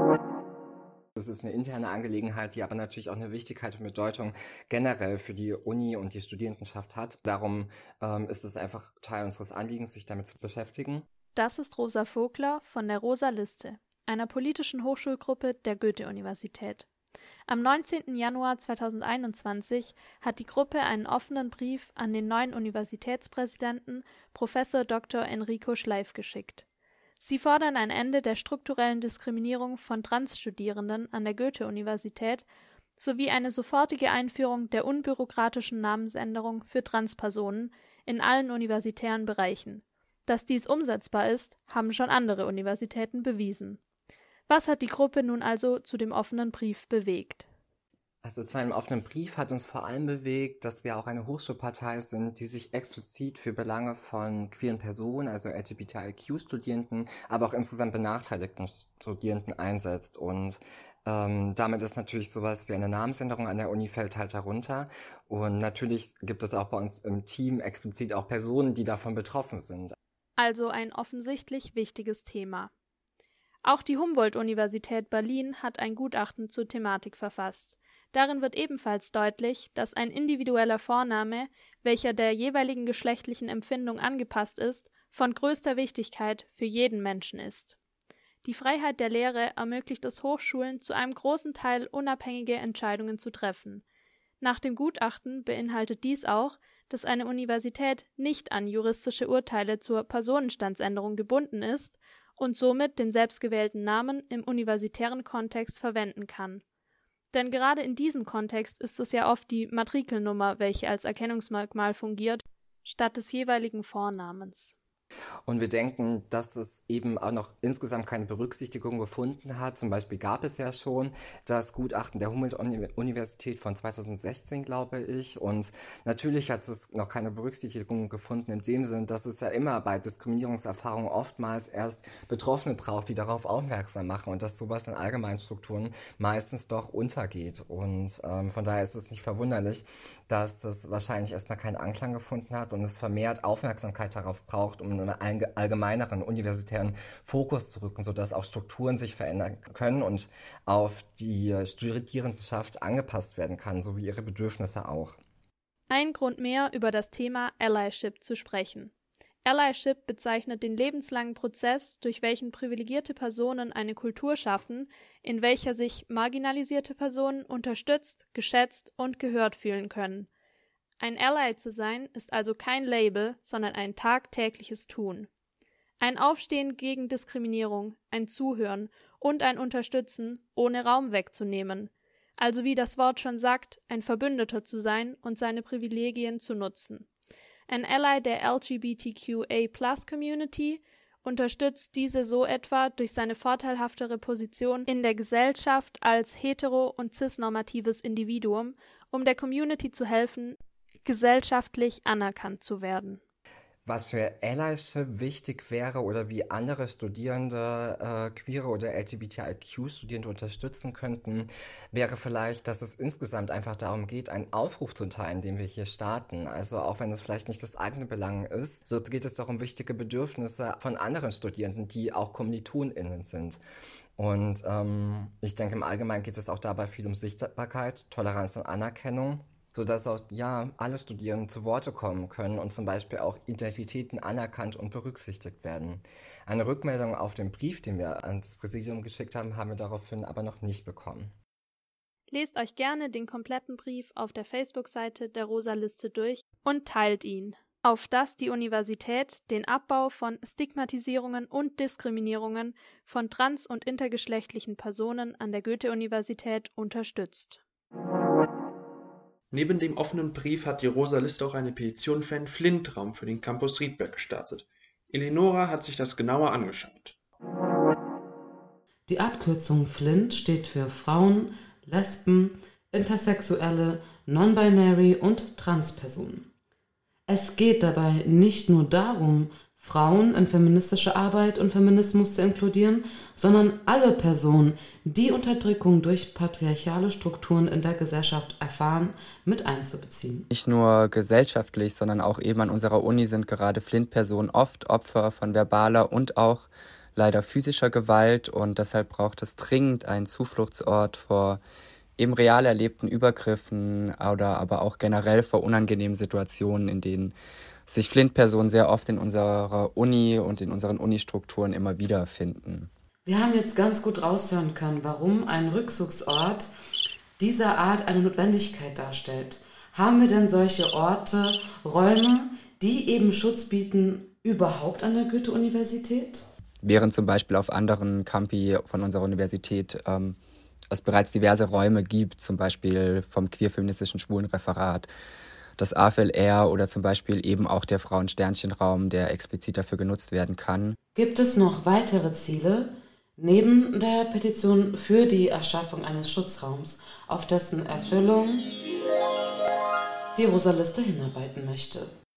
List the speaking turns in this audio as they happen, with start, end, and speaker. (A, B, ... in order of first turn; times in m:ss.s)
0:01.2-0:11.0 A
0:11.3-0:16.9 B
0:17.5-0:26.6 B
0:27.2-0:32.4 B
0:33.0-0:43.8 B
0:44.5-0:47.4 B
0:48.2-1:09.9 A
1:10.4-1:12.7 B
1:13.6-1:27.8 B
1:28.4-1:33.8 B
1:34.4-1:46.6 B
1:47.3-1:54.8 B
1:55.5-2:35.2 A
2:35.9-2:38.9 B
2:39.4-2:50.3 B
2:51.0-2:55.3 B
2:56.0-3:07.1 B
3:07.7-3:23.2 B
3:23.8-3:43.6 A
3:44.2-4:01.3 A
4:02.3-4:17.6 B
4:21.0-4:21.4 C
4:24.0-4:24.6 C
4:25.1-4:27.1 C
4:29.1-4:36.4 D
4:37.3-4:50.4 D
4:50.5-5:01.6 E
5:02.2-5:07.3 E
5:07.9-5:12.9 E
5:13.2-5:16.7 D
5:17.4-5:26.4 D
5:26.8-5:30.4 E
5:30.9-5:35.1 E
5:35.8-5:41.0 E
5:41.1-5:48.7 D
5:50.3-5:52.1 D